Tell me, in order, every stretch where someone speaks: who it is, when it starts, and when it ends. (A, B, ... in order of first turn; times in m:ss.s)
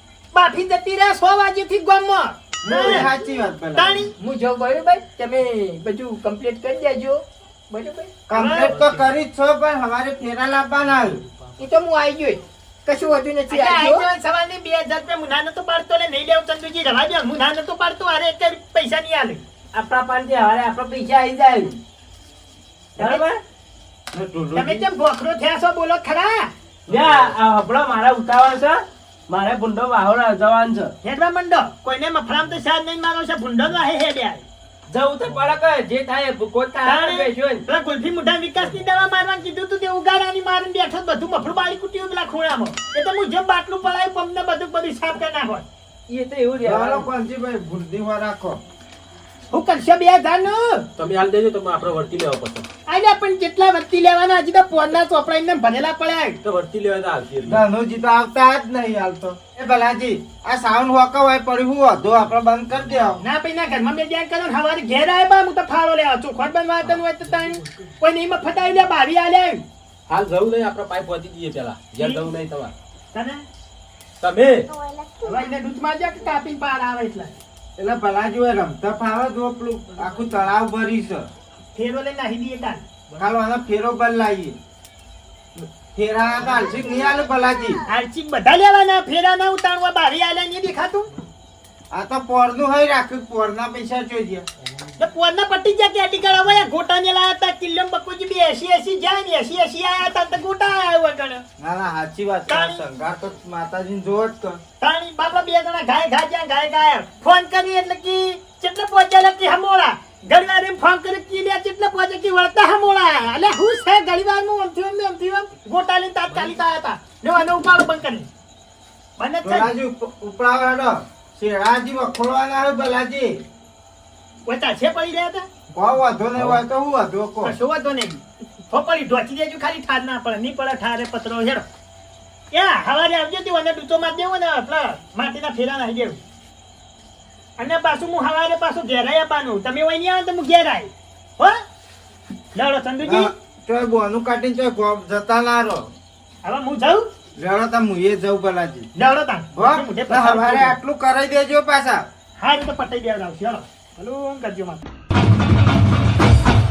0:00.3-0:03.1 A
0:02.6-0:04.1 B
0:03.8-0:04.1 A
0:04.2-0:08.1 C
0:08.3-0:11.2 B
0:08.3-0:09.0 A
0:11.6-0:14.1 C
0:13.5-0:19.4 A
0:19.7-0:21.8 D
0:23.0-0:23.4 D
0:23.0-0:23.2 A
0:24.1-0:24.8 B
0:24.6-0:26.5 A
0:26.9-0:30.9 D
0:26.9-0:27.3 E
0:31.0-0:34.4 A
0:34.9-0:37.6 D
0:36.8-0:45.6 A
0:46.1-0:47.1 D
0:46.6-0:48.6 B
0:49.5-0:50.9 A
0:51.0-0:52.7 E
0:52.9-0:56.4 A
0:56.4-0:57.6 E
0:57.5-1:03.2 B
1:03.2-1:09.6 A
1:10.1-1:12.7 E
1:12.0-1:12.3 A
1:13.1-1:13.4 A
1:14.2-1:14.7 E
1:15.2-1:17.4 A
1:17.8-1:21.3 B
1:21.8-1:22.8 A
1:23.2-1:24.6 B
1:25.6-1:27.8 B
1:27.9-1:31.1 A
1:31.9-1:34.5 B
1:35.0-1:41.4 A
1:41.6-1:44.6 B
1:42.5-1:42.8 A
1:44.8-1:58.3 A
1:59.2-1:59.7 A
1:59.4-2:03.4 B
2:04.5-2:05.5 A
2:05.7-2:07.5 B
2:07.4-2:11.6 A
2:12.5-2:16.2 A
2:17.6-2:21.6 A
2:22.5-2:23.3 A
2:23.0-2:25.9 B
2:26.4-2:27.1 A
2:27.4-2:28.9 B
2:29.0-2:30.8 A
2:29.5-2:32.1 B
2:32.4-2:34.8 A